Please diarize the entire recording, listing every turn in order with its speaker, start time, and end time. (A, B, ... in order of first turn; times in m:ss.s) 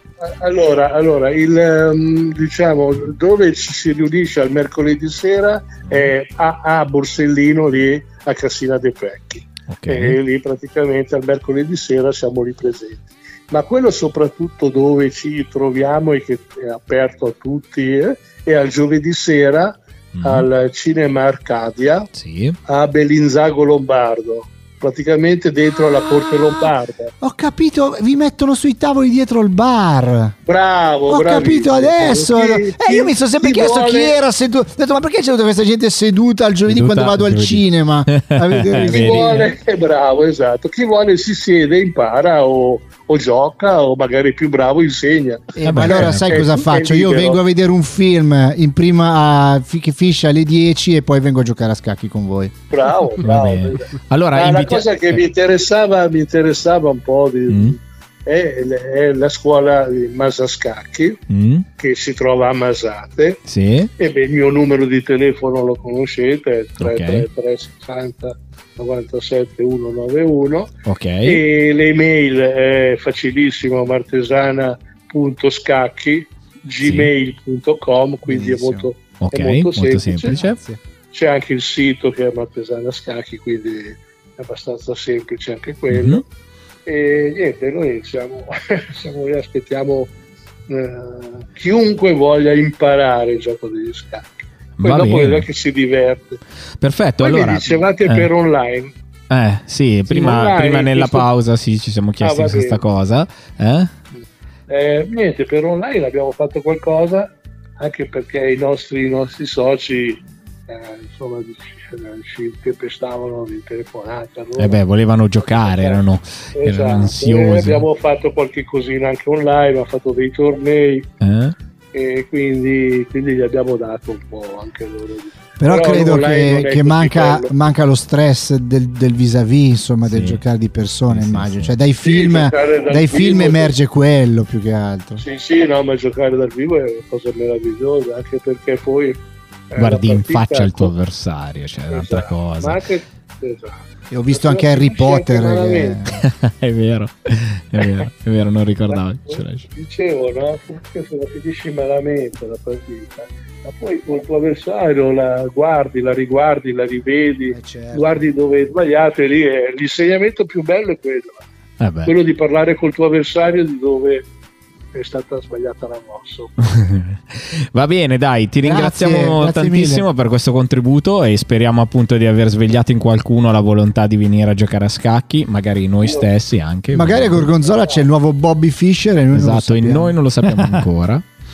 0:00.2-0:22.1 A
0:05.8-0:06.1 B
0:09.7-0:10.2 B
0:20.1-0:20.5 B
0:22.1-0:22.6 B
0:22.7-0:27.1 A
0:27.2-0:30.3 C
0:30.4-0:34.2 A
0:31.1-0:39.5 C
0:36.7-0:39.5 B
0:38.8-0:47.4 A
0:45.6-0:52.5 C
0:45.6-0:46.4 B
0:52.7-1:01.2 A
0:53.2-0:55.2 B
0:57.5-0:57.8 B
1:01.3-1:01.6 B
1:01.8-1:03.4 A
1:03.5-1:03.9 B
1:04.0-1:10.7 A
1:06.8-1:07.2 B
1:10.8-1:11.4 B
1:11.2-1:20.4 A
1:16.8-1:17.1 B
1:18.2-1:18.9 C
1:19.2-1:20.6 B
1:20.3-1:20.8 C
1:21.1-1:26.2 A
1:25.9-1:26.2 B
1:26.8-1:30.1 A
1:30.7-1:36.4 A
1:34.8-1:35.4 B
1:36.8-1:38.3 B
1:37.2-1:38.9 A
1:39.3-1:43.9 B
1:40.1-1:41.3 A
1:42.2-1:42.8 A
1:44.7-1:54.8 A
1:54.6-1:57.8 B
1:55.4-1:56.0 A
1:56.6-2:01.1 A
2:01.2-2:01.5 B
2:01.9-2:07.5 A
2:05.6-2:15.2 C
2:10.1-2:10.4 B
2:11.1-2:11.7 B
2:12.0-2:13.8 A
2:15.2-2:19.2 A
2:19.7-2:20.9 A
2:19.8-2:22.8 B
2:21.9-2:26.0 A
2:24.1-2:26.2 C
2:26.2-2:29.7 B
2:28.9-2:41.4 A
2:37.5-2:38.2 C
2:41.8-2:42.2 B
2:42.0-2:44.3 A
2:44.9-2:46.5 A
2:46.6-2:57.5 B
2:48.6-2:50.0 C
2:56.0-2:56.3 A
2:56.9-3:00.1 C
2:57.6-2:58.0 A
2:59.3-3:01.3 B